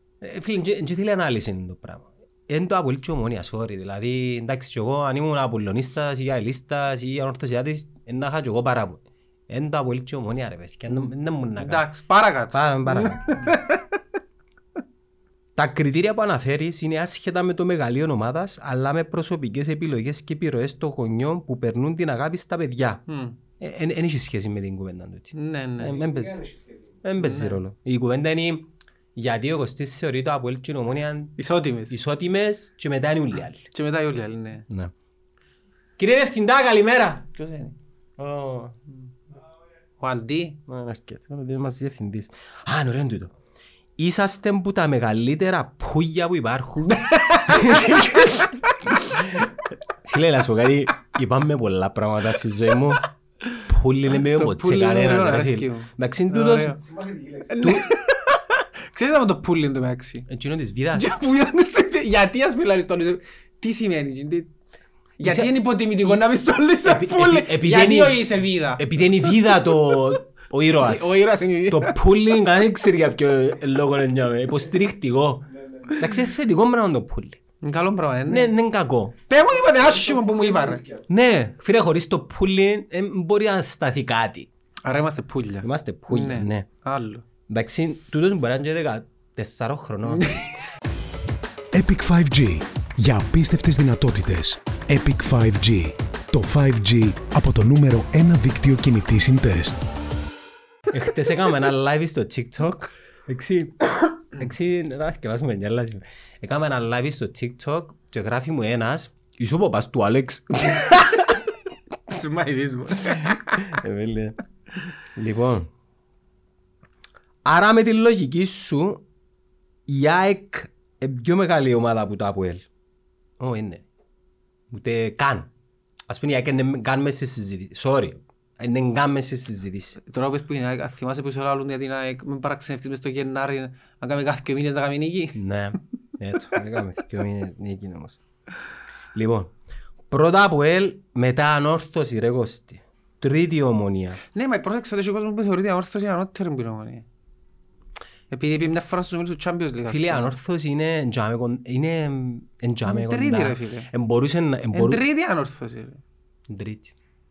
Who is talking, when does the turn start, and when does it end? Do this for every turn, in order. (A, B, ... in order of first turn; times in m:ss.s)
0:00.2-0:11.8 A
0:11.6-0:13.8 B
0:12.5-0:13.6 A
0:15.6-0:23.0 A
0:23.1-0:23.4 B
0:23.6-0:26.4 A
0:25.3-0:26.0 B
0:25.9-0:26.9 C
0:27.0-0:31.3 A
0:27.2-0:27.6 B
0:31.4-0:31.9 B
0:31.9-0:33.7 A
0:33.7-0:34.6 B
0:36.0-0:37.2 A
0:37.4-0:37.7 B
0:38.2-0:38.7 A
0:40.0-0:40.6 B
0:40.7-0:43.3 A
0:44.0-0:49.5 A
0:47.0-0:48.4 B
0:50.0-0:53.1 A
0:53.6-0:56.8 A
0:54.3-0:56.8 B
0:56.8-0:57.7 C
0:57.5-1:00.3 B
1:00.3-1:01.1 A
1:00.9-1:04.5 B
1:05.2-1:10.1 B
1:05.2-1:05.5 A
1:06.8-1:08.2 A
1:08.8-1:11.1 A
1:10.8-1:12.0 B
1:11.7-1:17.4 A
1:15.6-1:15.9 C
1:16.0-1:16.3 B
1:17.6-1:18.5 B
1:18.3-1:19.1 A
1:19.3-1:20.8 B
1:19.8-1:21.0 C
1:21.1-1:24.5 A
1:24.8-1:27.2 B
1:25.6-1:26.7 A
1:27.5-1:30.4 A
1:30.1-1:30.5 B
1:31.7-1:39.8 D
1:40.9-1:51.4 A
1:52.1-1:53.7 B
1:53.2-1:54.4 A
1:55.1-1:55.7 A
1:57.4-1:59.0 A
1:59.9-2:02.7 A
2:03.4-2:03.8 A
2:04.7-2:05.5 A
2:06.1-2:10.0 A
2:10.0-2:15.4 B
2:15.3-2:18.2 A
2:19.1-2:19.5 A
2:20.1-2:24.2 A
2:24.3-2:27.0 B
2:28.3-2:30.3 B
2:29.9-2:35.0 A
2:32.8-2:33.9 B
2:34.7-2:36.0 B
2:36.5-2:36.9 A